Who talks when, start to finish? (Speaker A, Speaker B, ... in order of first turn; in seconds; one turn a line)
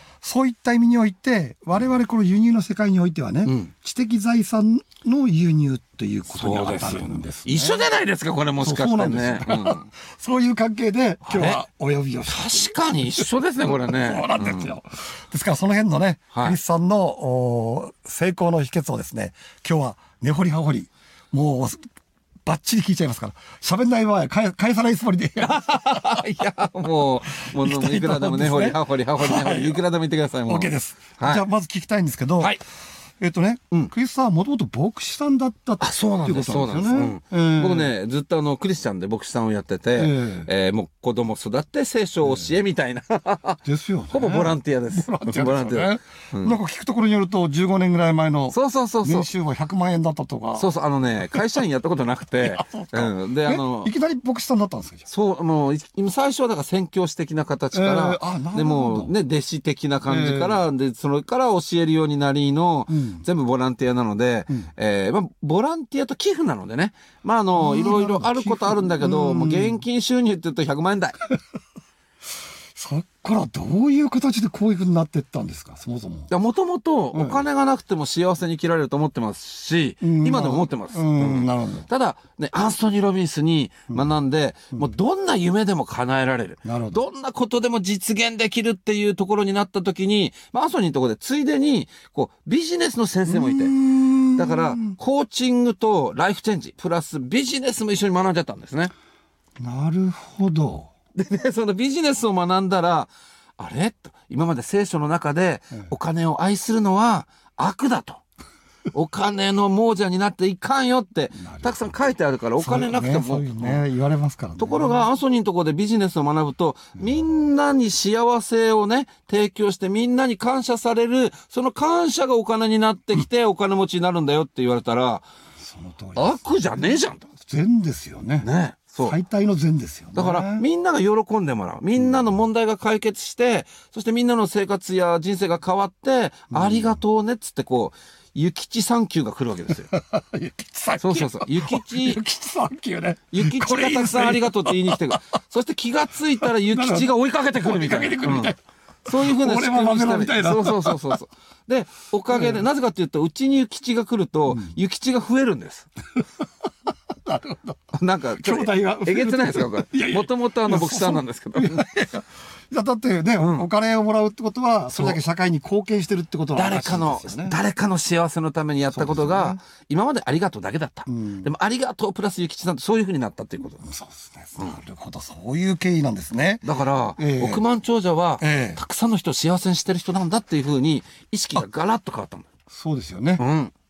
Speaker A: 0.2-7.9
Speaker B: 6.3-9.8
Speaker A: 8.6-21.8
Speaker B: 11.2-11.6
Speaker B: 12.3-14.7
Speaker A: 22.4-26.2
Speaker B: 25.4-31.4
Speaker A: 27.3-29.8
Speaker A: 30.4-32.6
Speaker A: 33.2-37.9
Speaker B: 35.8-43.6
Speaker A: 40.0-40.5
Speaker A: 43.6-50.7
Speaker B: 44.1-46.6
Speaker B: 48.5-49.3
Speaker B: 50.5-53.9
Speaker A: 51.2-51.4
Speaker A: 52.4-55.1
Speaker B: 55.1-71.2
Speaker A: 57.7-59.1
Speaker A: 60.0-60.6
Speaker A: 62.9-63.2
Speaker A: 67.5-69.8
Speaker A: 72.7-76.3
Speaker B: 76.3-93.7
Speaker A: 77.1-77.4
Speaker A: 80.0-81.9
Speaker A: 86.6-87.0
Speaker A: 93.2-95.0
Speaker B: 94.3-98.9
Speaker A: 99.6-100.9
Speaker B: 101.1-108.2
Speaker B: 108.9-113.8
Speaker A: 111.4-112.0
Speaker A: 112.6-115.0
Speaker B: 114.6-125.2
Speaker A: 125.6-128.5
Speaker B: 126.2-127.2
Speaker B: 128.4-129.2
Speaker A: 129.0-130.6
Speaker B: 130.1-139.9
Speaker A: 136.5-137.0
Speaker A: 139.9-145.4
Speaker B: 141.0-142.2
Speaker B: 143.3-155.9
Speaker A: 146.4-148.6
Speaker A: 149.1-151.2
Speaker A: 152.3-152.6
Speaker A: 154.5-154.7
Speaker A: 157.2-157.8
Speaker B: 157.9-161.9
Speaker A: 158.3-167.6
Speaker B: 163.4-163.7
Speaker B: 166.5-173.8
Speaker A: 168.9-169.6
Speaker A: 171.1-171.5
Speaker A: 173.8-176.7
Speaker B: 176.6-182.5
Speaker A: 177.2-177.6
Speaker A: 178.4-178.8
Speaker A: 182.7-183.4
Speaker B: 183.4-183.7